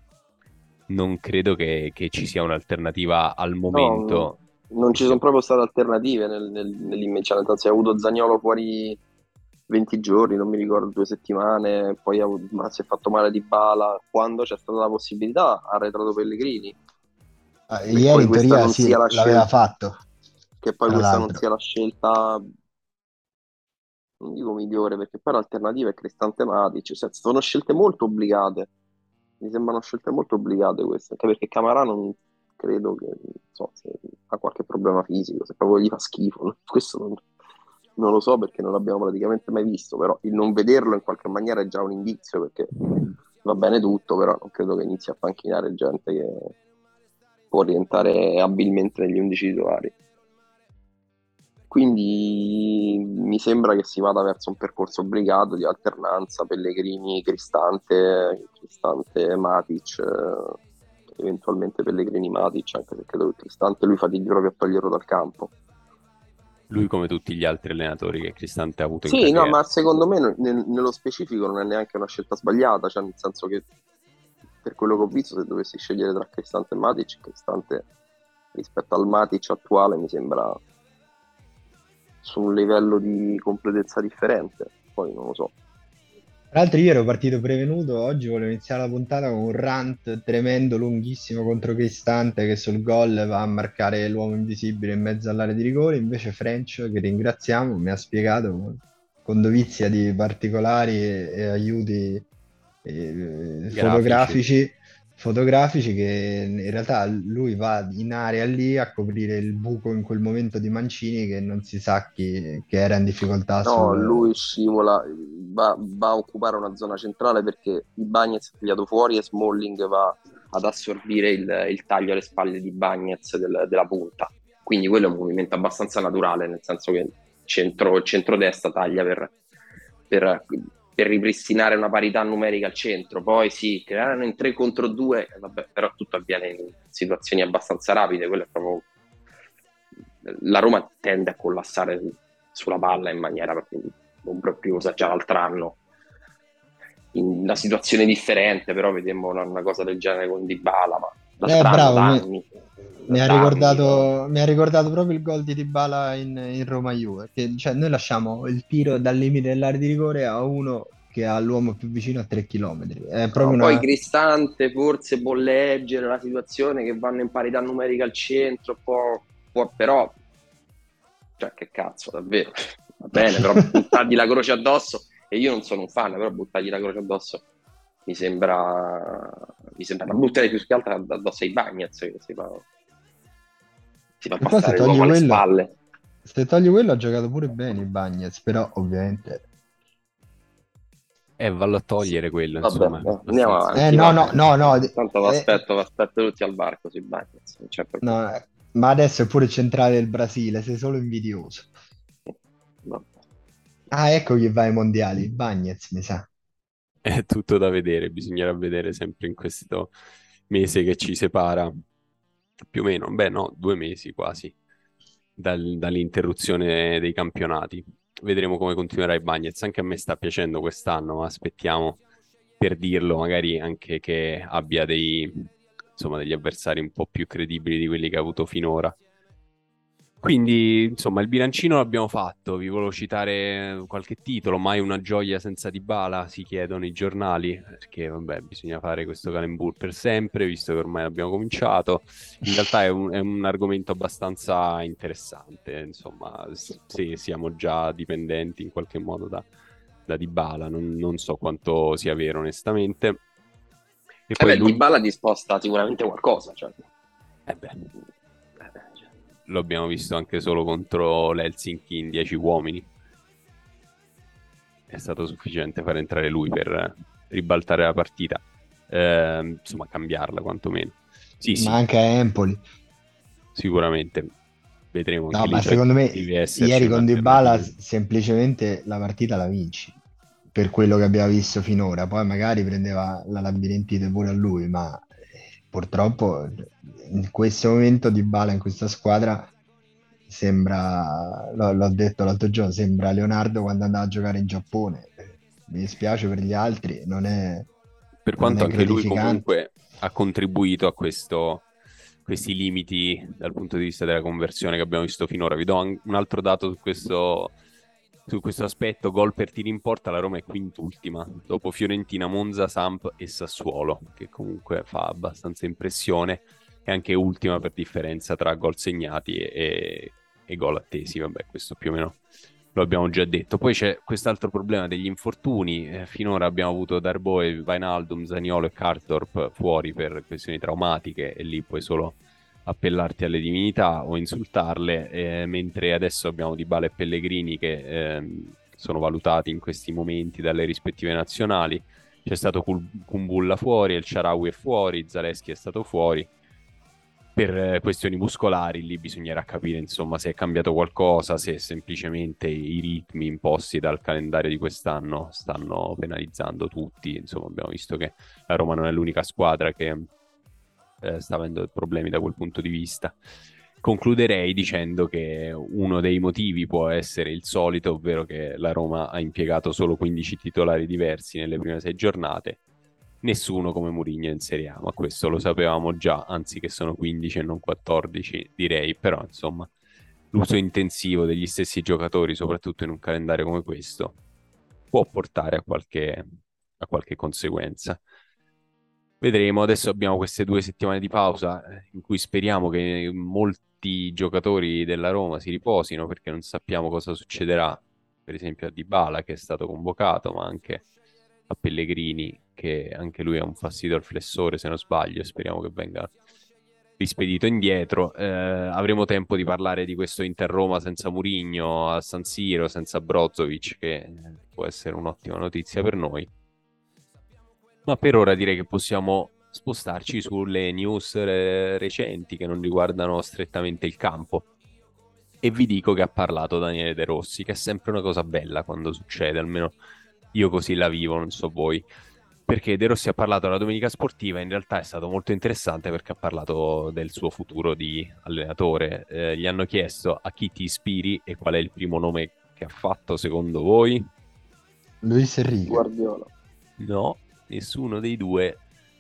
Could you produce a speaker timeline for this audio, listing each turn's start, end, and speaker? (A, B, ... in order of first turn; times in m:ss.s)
0:00.9-0:04.4 A
0:03.7-0:09.0 B
0:04.9-0:05.2 A
0:09.7-0:16.8 B
0:17.7-0:20.0 C
0:17.9-0:19.4 B
0:20.6-0:22.4 B
0:20.9-0:21.4 C
0:24.2-0:28.7 B
0:29.4-0:37.2 B
0:38.0-0:42.8 B
0:43.4-0:46.5 B
0:47.5-0:49.9 B
0:51.7-1:00.6 B
1:01.2-1:05.5 B
1:06.7-1:09.6 A
1:09.1-1:13.6 B
1:14.6-1:17.9 B
1:18.5-1:20.6 B
1:22.2-1:25.5 B
1:26.5-1:42.3 C
1:42.8-1:54.3 C
1:43.7-1:44.4 A
1:53.6-2:09.3 B
2:10.1-2:18.8 B
2:20.2-2:25.8 B
2:27.1-2:32.5 B
2:31.5-2:32.3 C
2:33.0-2:43.9 C
2:33.1-2:34.1 B
2:43.4-2:50.1 B
2:51.4-2:57.4 B
2:58.1-3:02.6 B
3:04.2-3:05.7 B
3:04.4-3:05.4 C
3:06.2-3:09.4 C
3:11.4-3:13.9 A
3:12.6-3:18.2 B
3:13.8-3:15.6 C
3:18.0-3:21.7 C
3:23.9-3:26.3 C
3:27.0-3:29.9 A
3:30.5-3:31.7 A
3:32.7-3:34.5 A
3:35.4-3:42.0 A
3:42.6-3:49.0 A
3:50.2-4:09.5 A
4:10.1-4:13.2 A
4:14.3-4:14.8 A
4:14.4-4:16.8 B
4:17.5-4:17.9 A
4:19.5-4:22.9 A
4:24.9-4:31.8 A
4:31.6-4:32.6 C
4:33.6-4:34.3 A
4:34.9-4:37.7 A
4:35.3-4:40.0 C
4:40.5-4:49.5 C
4:50.3-4:57.7 C
4:58.2-5:01.7 A
4:58.4-4:59.5 C
5:02.2-5:07.5 A
5:08.3-5:22.2 A
5:22.7-5:46.3 A
5:47.4-6:00.1 A
6:01.0-6:03.2 A
6:03.8-6:12.6 A
6:13.2-6:19.7 A
6:20.3-6:24.2 A
6:24.9-6:26.2 A
6:26.8-6:28.0 A
6:29.2-6:40.8 A
6:41.5-6:46.1 A
6:47.0-6:56.3 A
6:57.9-7:04.5 A
7:05.4-7:09.8 A
7:10.3-7:11.8 A
7:12.5-7:24.1 A
7:25.0-7:25.9 C
7:25.7-7:26.3 B
7:26.8-7:28.6 A